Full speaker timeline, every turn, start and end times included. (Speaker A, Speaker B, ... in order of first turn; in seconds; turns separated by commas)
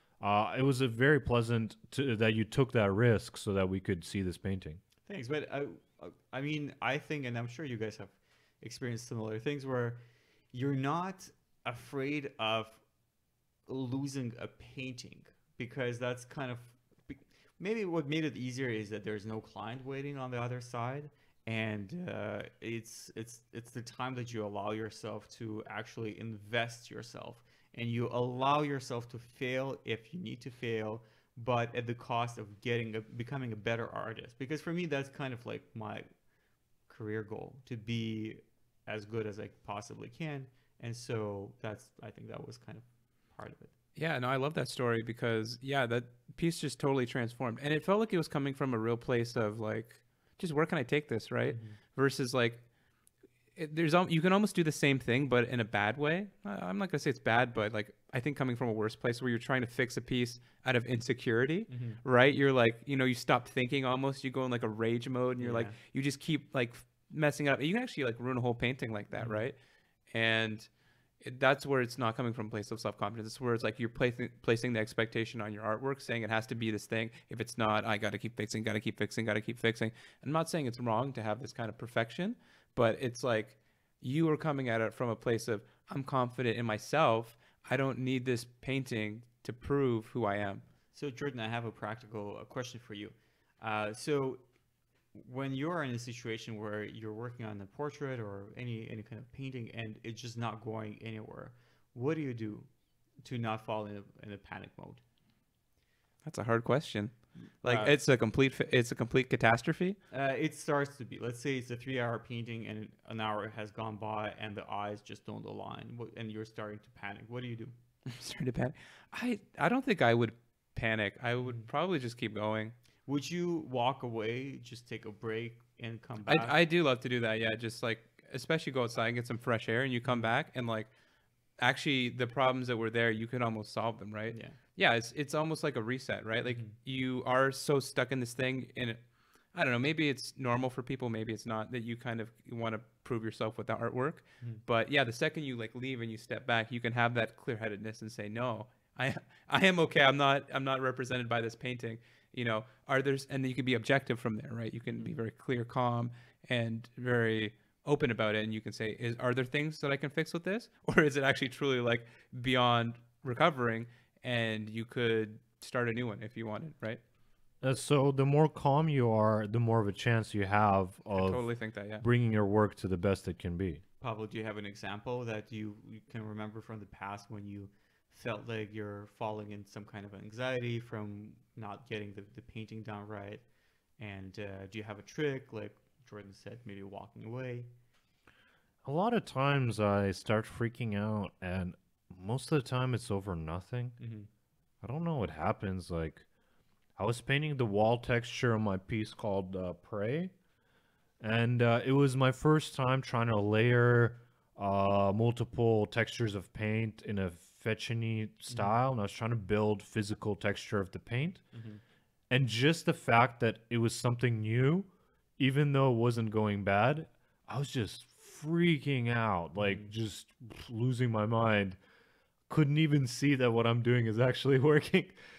Speaker A: 0.2-4.8, Speaker B: 5.1-10.0, Speaker B: 10.5-12.8, Speaker B: 13.7-36.1, Speaker B: 36.9-43.7, Speaker C: 44.0-52.6, Speaker B: 51.5-51.8, Speaker C: 53.6-69.6, Speaker B: 61.7-62.0, Speaker B: 65.4-65.8, Speaker B: 69.2-69.5, Speaker C: 70.1-70.7, Speaker C: 71.2-90.6, Speaker B: 90.9-94.5, Speaker B: 95.1-102.7, Speaker B: 103.2-105.0, Speaker C: 106.2-110.0, Speaker B: 107.6-107.9, Speaker B: 110.1-117.7, Speaker C: 118.1-122.8, Speaker B: 123.1-126.5, Speaker C: 126.3-130.9, Speaker B: 130.1-130.3, Speaker C: 131.6-139.0, Speaker B: 134.3-134.6, Speaker B: 136.4-136.8, Speaker C: 139.5-167.0, Speaker A: 167.6-171.4, Speaker C: 171.1-172.1, Speaker A: 172.0-173.8, Speaker B: 174.0-183.4, Speaker B: 184.0-187.7, Speaker A: 188.8-194.0, Speaker B: 194.0-194.3, Speaker A: 194.8-196.3, Speaker A: 197.0-200.3, Speaker A: 201.2-211.4, Speaker B: 208.5-208.8, Speaker B: 211.5-211.8, Speaker A: 212.3-221.8, Speaker B: 219.6-219.9, Speaker A: 222.5-225.2